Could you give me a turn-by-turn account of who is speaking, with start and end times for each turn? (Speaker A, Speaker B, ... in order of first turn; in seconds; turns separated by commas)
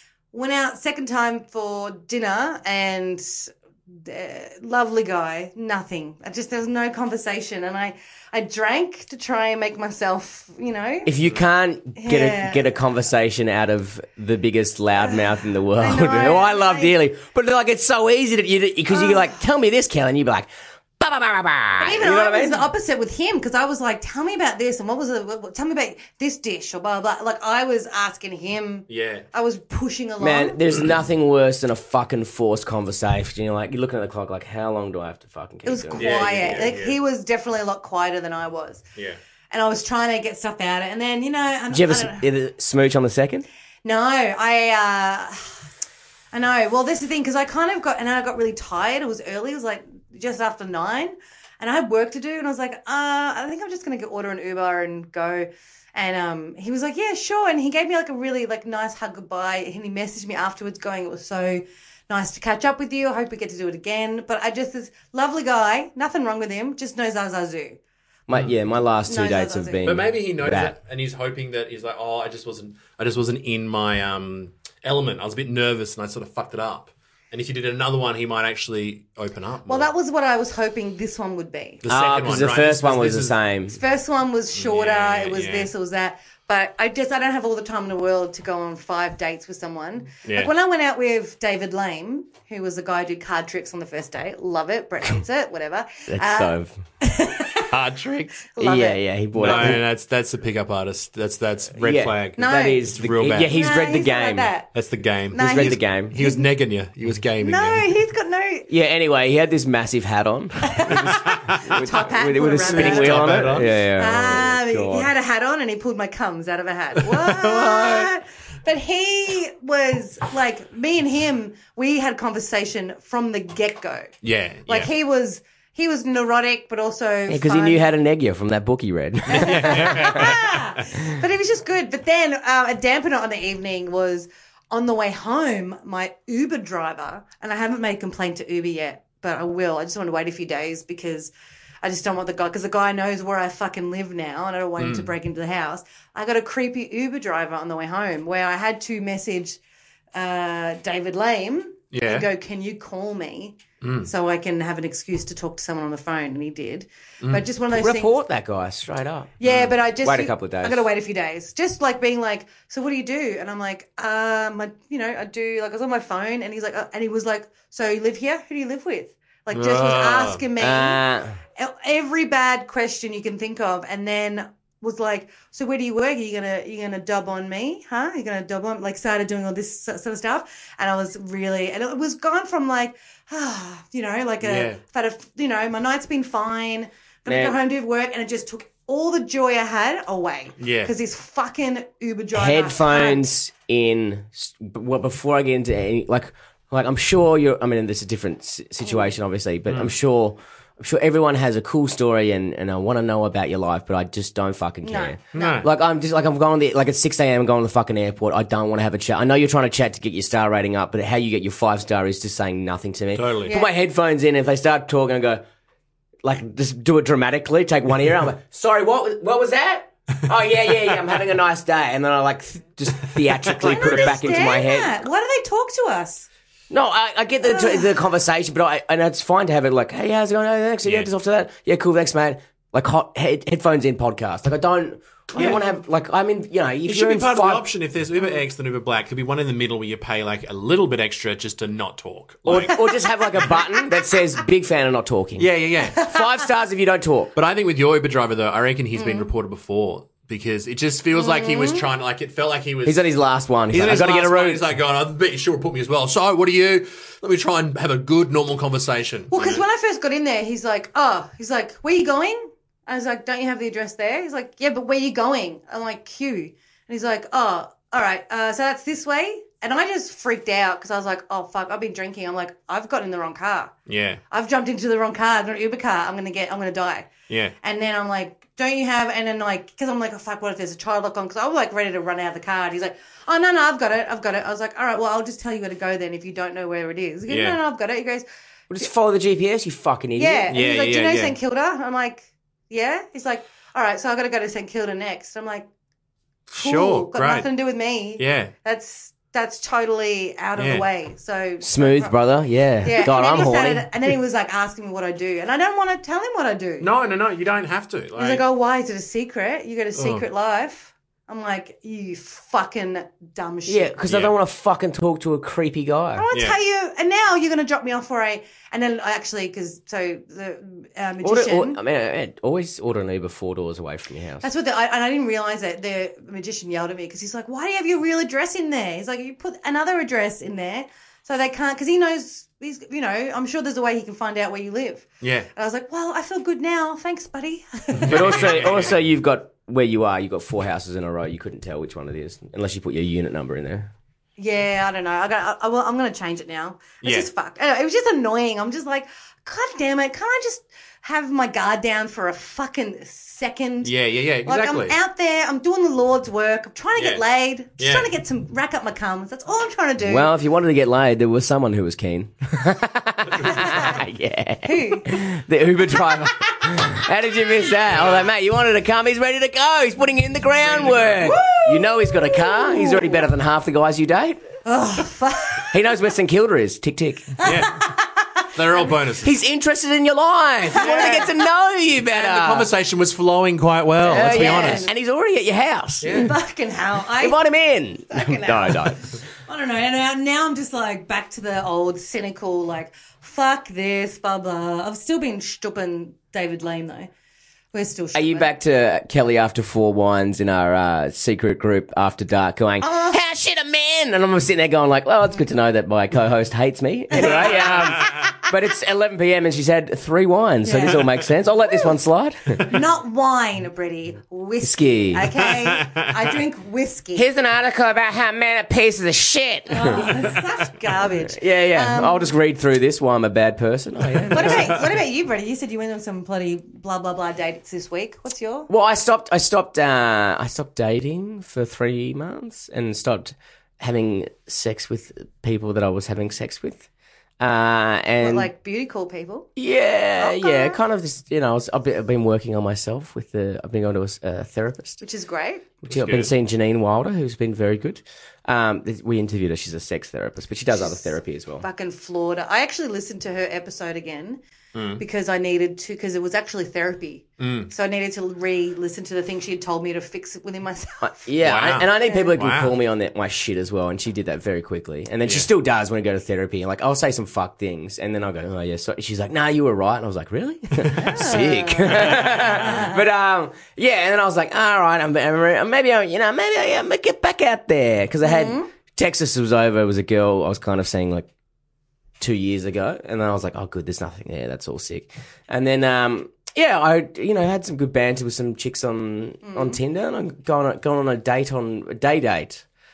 Speaker A: 0.3-11.1, Speaker B: 11.1-20.5, Speaker A: 12.0-12.7, Speaker A: 15.0-16.9, Speaker A: 18.9-19.3, Speaker B: 21.0-22.7, Speaker A: 21.8-30.6, Speaker C: 28.9-29.2, Speaker B: 30.2-36.4, Speaker A: 35.6-38.8, Speaker C: 36.0-37.0, Speaker A: 39.5-42.2, Speaker B: 41.7-43.5, Speaker A: 43.8-45.6, Speaker A: 46.3-67.8, Speaker B: 68.3-70.7, Speaker A: 69.0-69.9, Speaker C: 69.8-79.9, Speaker A: 79.7-81.8, Speaker C: 81.8-83.3, Speaker B: 81.8-83.8, Speaker A: 83.7-97.7, Speaker C: 84.5-85.7, Speaker C: 90.2-90.5, Speaker B: 96.1-96.7, Speaker C: 97.7-98.5, Speaker A: 98.5-99.8, Speaker B: 98.6-99.8, Speaker C: 99.3-103.5, Speaker B: 101.8-104.5, Speaker A: 102.4-102.8, Speaker A: 103.5-104.7, Speaker C: 104.7-107.9, Speaker A: 105.3-106.4, Speaker B: 105.3-106.1, Speaker A: 107.4-108.7, Speaker B: 108.7-115.1, Speaker A: 110.6-124.1, Speaker C: 110.9-111.9, Speaker C: 112.6-113.8, Speaker C: 117.0-118.1, Speaker C: 124.2-124.9, Speaker A: 124.7-127.9, Speaker B: 127.3-130.4, Speaker A: 129.3-141.3, Speaker C: 129.3-130.8, Speaker A: 141.8-149.6, Speaker C: 144.8-145.1, Speaker A: 150.1-158.1, Speaker C: 151.9-152.3, Speaker C: 153.8-154.1, Speaker C: 157.2-157.4, Speaker B: 157.7-159.3, Speaker A: 159.4-171.0, Speaker C: 159.4-159.7, Speaker B: 160.0-160.9, Speaker C: 169.5-170.4, Speaker B: 170.6-171.4, Speaker A: 171.6-193.3, Speaker C: 184.4-184.8, Speaker B: 187.2-187.6, Speaker C: 190.6-190.9, Speaker B: 192.3-215.4, Speaker C: 199.7-199.9, Speaker A: 204.8-205.6, Speaker C: 205.3-205.7, Speaker C: 213.1-213.5, Speaker A: 213.4-213.7, Speaker B: 216.2-225.0, Speaker C: 223.2-224.2, Speaker A: 223.6-226.3, Speaker B: 226.7-237.6, Speaker A: 227.4-227.9, Speaker C: 235.3-235.7, Speaker C: 236.8-242.8, Speaker B: 242.4-247.3, Speaker A: 242.6-243.8, Speaker C: 245.4-246.1, Speaker A: 245.9-246.2, Speaker C: 247.3-253.1, Speaker A: 248.9-249.3, Speaker A: 251.1-251.9, Speaker B: 252.8-254.6, Speaker C: 253.7-259.6, Speaker A: 259.3-273.7, Speaker C: 273.9-274.2, Speaker A: 274.3-277.1, Speaker C: 277.3-277.5, Speaker A: 277.6-288.2, Speaker C: 287.3-287.6, Speaker B: 288.7-290.5, Speaker A: 290.2-295.6, Speaker C: 290.5-291.4, Speaker C: 296.5-297.5, Speaker A: 296.6-302.1, Speaker C: 298.2-298.5, Speaker C: 300.6-300.9, Speaker B: 301.6-303.9, Speaker A: 302.8-306.9, Speaker C: 306.8-308.4, Speaker A: 308.1-313.9, Speaker C: 309.9-310.2, Speaker B: 313.6-316.2, Speaker C: 314.1-314.3, Speaker A: 316.1-321.8, Speaker B: 321.2-324.4, Speaker A: 324.4-338.6, Speaker C: 335.2-335.5, Speaker C: 338.0-339.0, Speaker B: 338.1-343.9, Speaker A: 344.4-353.9, Speaker C: 353.8-355.0, Speaker A: 354.4-360.3, Speaker C: 356.9-357.2, Speaker C: 357.8-358.1, Speaker B: 360.0-374.4, Speaker C: 363.3-363.8, Speaker A: 363.4-364.0, Speaker A: 364.6-365.1, Speaker A: 365.9-366.8, Speaker C: 367.9-368.2, Speaker C: 370.6-371.3, Speaker A: 371.2-373.3, Speaker A: 374.6-375.7, Speaker B: 375.7-377.4, Speaker A: 377.4-378.5, Speaker C: 377.4-377.9, Speaker C: 378.5-379.4, Speaker B: 379.2-382.7, Speaker C: 380.7-381.3, Speaker A: 380.7-381.3, Speaker C: 382.0-384.9, Speaker B: 384.0-386.3, Speaker A: 384.1-384.9, Speaker C: 386.0-386.3, Speaker A: 386.2-387.4, Speaker B: 387.2-389.1, Speaker A: 388.1-397.1, Speaker A: 397.7-398.5, Speaker B: 398.1-412.7, Speaker A: 402.8-403.2, Speaker A: 407.1-408.3, Speaker C: 407.4-408.3, Speaker A: 410.6-411.1, Speaker A: 412.6-417.3, Speaker B: 414.6-415.3, Speaker C: 415.4-416.3, Speaker B: 417.1-420.2, Speaker A: 419.7-422.3, Speaker B: 421.3-424.8, Speaker C: 424.1-424.8, Speaker A: 424.3-428.7, Speaker B: 428.7-436.9, Speaker B: 437.4-438.5, Speaker A: 438.2-439.5, Speaker B: 439.6-445.0, Speaker A: 440.2-440.8, Speaker A: 445.0-445.7, Speaker B: 445.8-451.6, Speaker C: 445.9-446.3, Speaker A: 450.7-454.4, Speaker C: 454.7-455.0, Speaker A: 455.0-461.3, Speaker C: 457.4-457.7, Speaker B: 461.0-481.3, Speaker C: 461.4-462.7, Speaker C: 470.8-471.0, Speaker A: 470.9-473.0, Speaker C: 471.9-472.8, Speaker A: 478.2-478.7, Speaker B: 482.2-492.6, Speaker A: 489.4-489.8